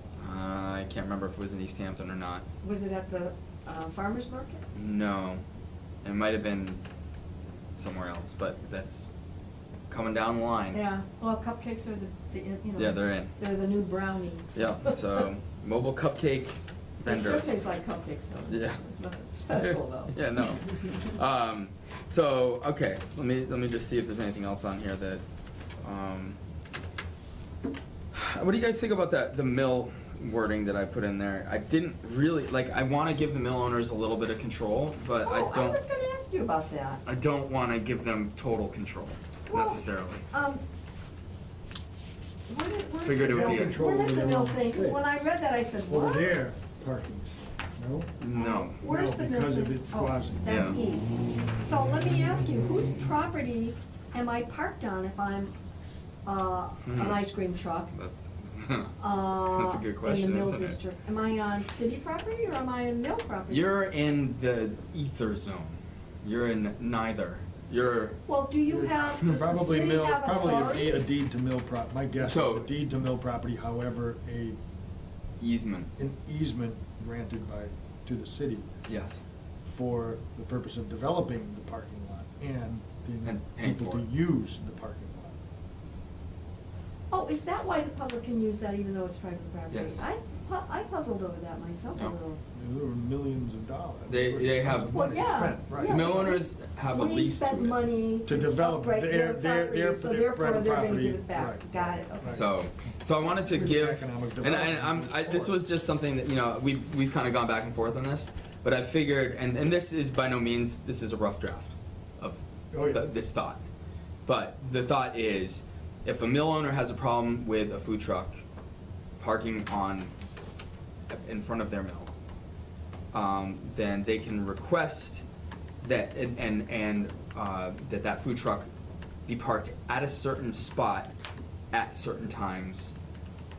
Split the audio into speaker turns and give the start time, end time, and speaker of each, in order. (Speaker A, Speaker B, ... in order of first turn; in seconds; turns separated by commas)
Speaker A: 0.2-2.4, Speaker B: 2.6-4.6, Speaker A: 4.7-5.4, Speaker A: 6.0-6.8, Speaker A: 7.8-9.1, Speaker A: 9.9-10.8, Speaker B: 10.7-15.2, Speaker A: 12.8-13.3, Speaker A: 14.5-17.5, Speaker B: 17.1-20.5, Speaker A: 18.5-18.8, Speaker A: 19.5-25.2, Speaker A: 25.8-26.4, Speaker A: 28.1-35.8, Speaker B: 35.2-37.0, Speaker A: 37.0-40.2, Speaker B: 39.5-40.6, Speaker B: 42.5-46.4, Speaker A: 43.0-44.0, Speaker C: 43.2-45.2, Speaker C: 45.9-48.1, Speaker A: 48.2-48.8, Speaker B: 48.3-55.5, Speaker C: 48.8-50.7, Speaker A: 50.5-50.8, Speaker B: 56.2-57.9, Speaker A: 56.8-57.2, Speaker A: 57.9-60.8, Speaker B: 59.0-63.7, Speaker A: 63.5-68.2, Speaker B: 68.3-71.0, Speaker C: 68.7-74.6, Speaker A: 72.2-72.7, Speaker A: 75.4-75.9, Speaker C: 76.0-78.7, Speaker A: 78.8-79.2, Speaker C: 79.6-85.3, Speaker A: 83.2-84.0, Speaker B: 87.1-92.4, Speaker A: 89.7-90.0, Speaker C: 92.5-96.4, Speaker A: 94.1-97.8, Speaker B: 94.9-102.4, Speaker C: 98.2-102.5, Speaker A: 102.2-113.6, Speaker C: 103.5-105.6, Speaker C: 112.7-113.1, Speaker A: 114.2-118.3, Speaker A: 119.2-120.1, Speaker A: 121.1-122.1, Speaker A: 123.1-125.2, Speaker A: 125.8-128.7, Speaker A: 129.3-131.1, Speaker A: 131.7-132.9